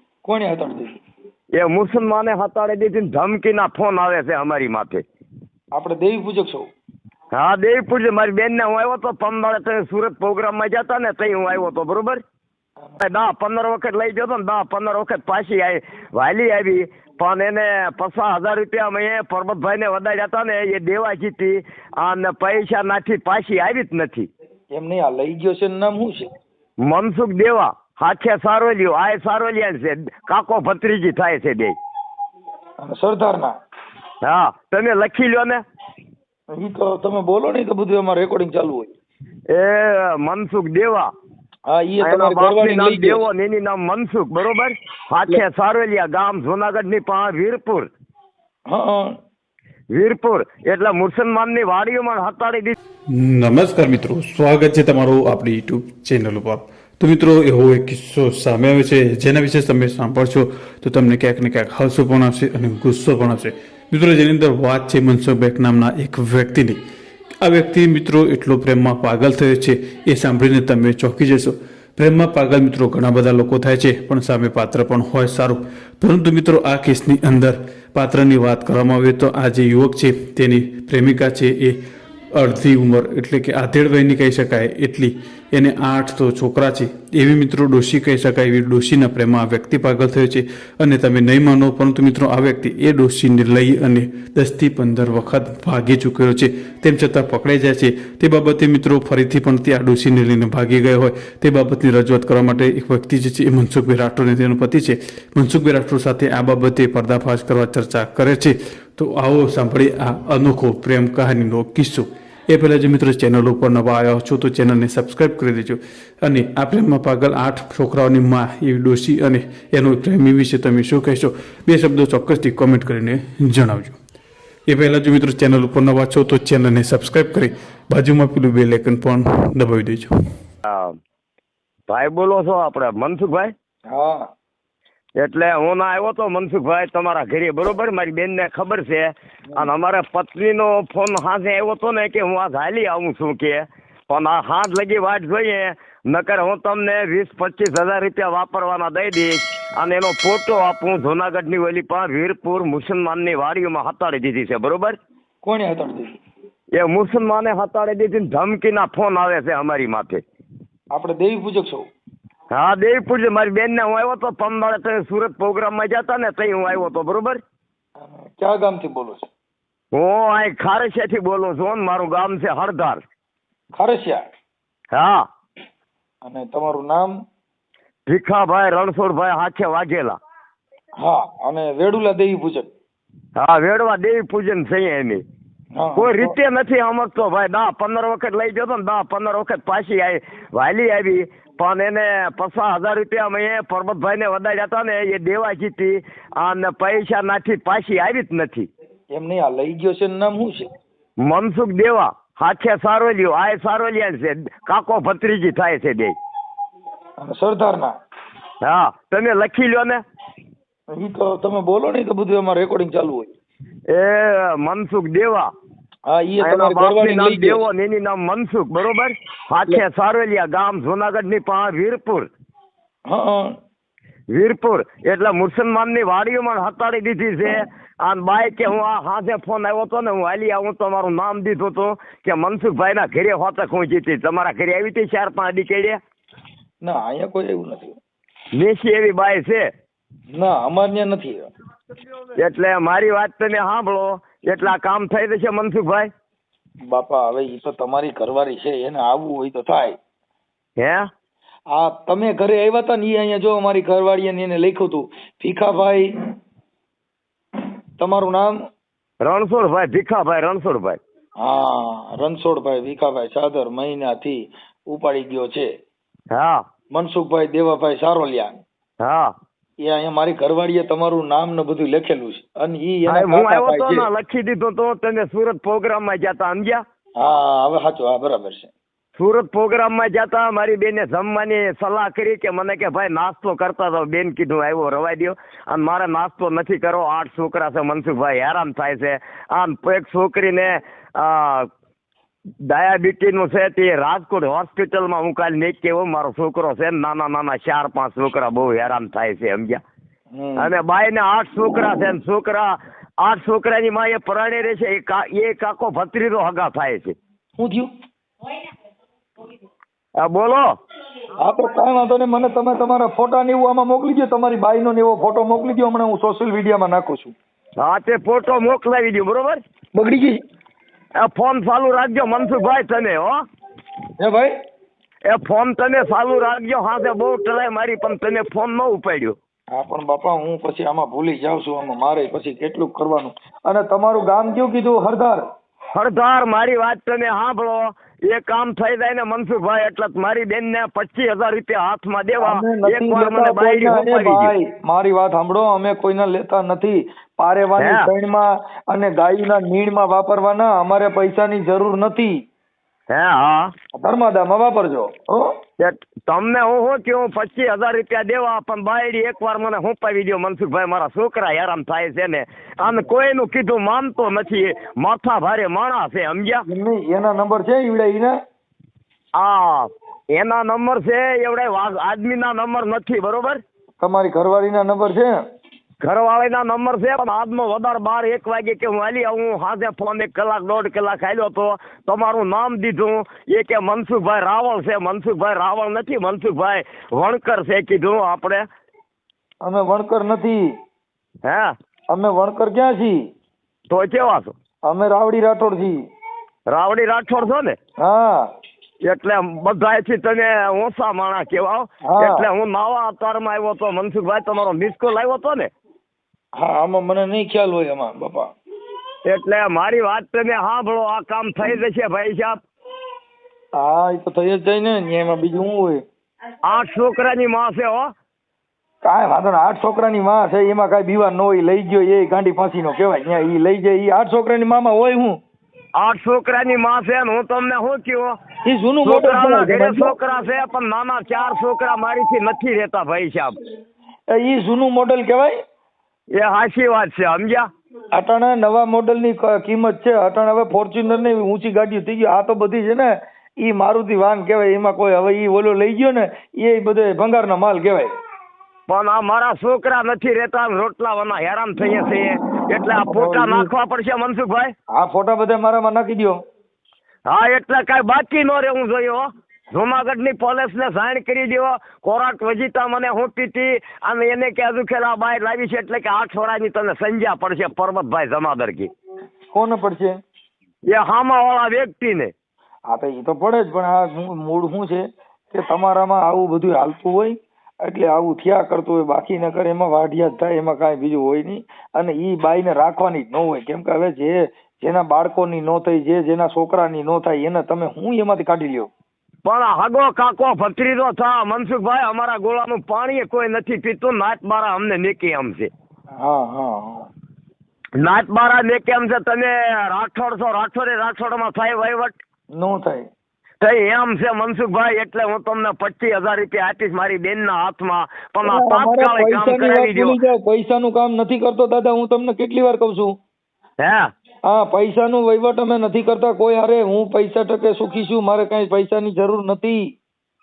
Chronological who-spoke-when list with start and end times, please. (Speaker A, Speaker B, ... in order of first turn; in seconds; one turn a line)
Speaker A: 0.2-1.0
Speaker B: 1.5-5.0
Speaker A: 5.7-6.7
Speaker B: 7.3-12.2
Speaker B: 13.0-24.3
Speaker A: 24.7-26.3
Speaker B: 26.8-31.8
Speaker A: 32.8-33.5
Speaker B: 34.2-35.6
Speaker A: 36.5-38.9
Speaker B: 39.5-41.1
Speaker A: 41.7-43.2
Speaker B: 42.0-47.9
Speaker A: 48.7-49.1
Speaker B: 49.9-52.8
Speaker C: 53.1-66.8
Speaker C: 67.4-81.8
Speaker C: 82.3-124.0
Speaker C: 124.7-130.1
Speaker B: 130.7-130.9
Speaker B: 131.9-133.5
Speaker A: 133.9-134.3
Speaker B: 135.2-155.0
Speaker A: 155.4-156.2
Speaker B: 156.8-160.2
Speaker A: 160.9-161.8
Speaker B: 162.5-167.4
Speaker A: 168.0-169.3
Speaker B: 169.9-173.0
Speaker A: 173.8-174.2
Speaker B: 174.9-175.2
Speaker A: 176.2-177.1
Speaker B: 178.1-180.2
Speaker A: 181.0-182.7
Speaker B: 183.4-185.2
Speaker A: 185.8-186.3
Speaker B: 186.0-198.7
Speaker A: 199.1-200.7
Speaker B: 201.2-206.2
Speaker A: 207.2-207.9
Speaker B: 208.6-210.0
Speaker A: 210.9-213.3
Speaker B: 213.9-215.5
Speaker A: 216.1-217.6
Speaker B: 216.4-222.3
Speaker A: 223.1-223.5
Speaker B: 224.3-236.0
Speaker A: 236.8-238.0
Speaker B: 238.5-239.7
Speaker A: 240.3-241.4
Speaker B: 242.4-246.1
Speaker A: 246.9-250.0
Speaker B: 250.8-251.1
Speaker A: 251.7-256.1
Speaker A: 258.0-258.6
Speaker B: 259.2-261.0
Speaker A: 261.4-265.7
Speaker B: 266.3-266.6
Speaker A: 266.9-268.6
Speaker B: 269.0-269.3
Speaker A: 269.8-274.1
Speaker B: 273.1-276.8
Speaker A: 277.2-278.7
Speaker B: 279.2-291.7
Speaker B: 292.6-299.8
Speaker A: 300.3-300.7
Speaker B: 300.6-307.2
Speaker A: 307.6-307.9
Speaker B: 310.2-310.7
Speaker A: 311.4-317.4
Speaker B: 317.8-319.6
Speaker A: 319.9-320.4
Speaker B: 321.2-323.4
Speaker A: 324.2-324.5
Speaker B: 325.3-329.4
Speaker A: 329.7-335.4
Speaker B: 335.9-344.5
Speaker A: 342.4-352.4
Speaker B: 347.8-348.1
Speaker B: 353.1-353.7
Speaker A: 354.0-355.5
Speaker B: 355.8-366.6
Speaker A: 366.7-368.4
Speaker B: 369.4-373.6
Speaker A: 374.0-375.4
Speaker B: 376.0-388.7
Speaker A: 389.6-390.6
Speaker B: 391.4-391.7
Speaker A: 392.1-393.2
Speaker B: 393.9-394.5
Speaker A: 394.9-396.0
Speaker B: 396.7-397.8
Speaker A: 398.0-398.5
Speaker B: 399.1-405.7
Speaker A: 402.1-402.5
Speaker A: 406.6-408.5
Speaker B: 409.2-412.6
Speaker A: 413.8-416.0
Speaker B: 416.6-418.1
Speaker A: 419.0-425.4
Speaker B: 426.0-428.3
Speaker A: 428.7-430.1
Speaker B: 429.1-433.6
Speaker A: 434.3-435.5
Speaker B: 436.4-437.7
Speaker A: 438.1-448.1
Speaker B: 448.9-454.7
Speaker A: 453.0-453.7
Speaker A: 454.9-456.4
Speaker B: 457.3-468.9
Speaker A: 469.5-470.1
Speaker B: 470.9-472.3
Speaker A: 472.9-488.9
Speaker B: 489.4-495.7
Speaker A: 496.2-497.1
Speaker B: 498.0-502.2
Speaker A: 502.6-503.1
Speaker B: 503.6-510.2
Speaker A: 508.4-513.1
Speaker B: 513.8-514.1
Speaker A: 514.5-519.8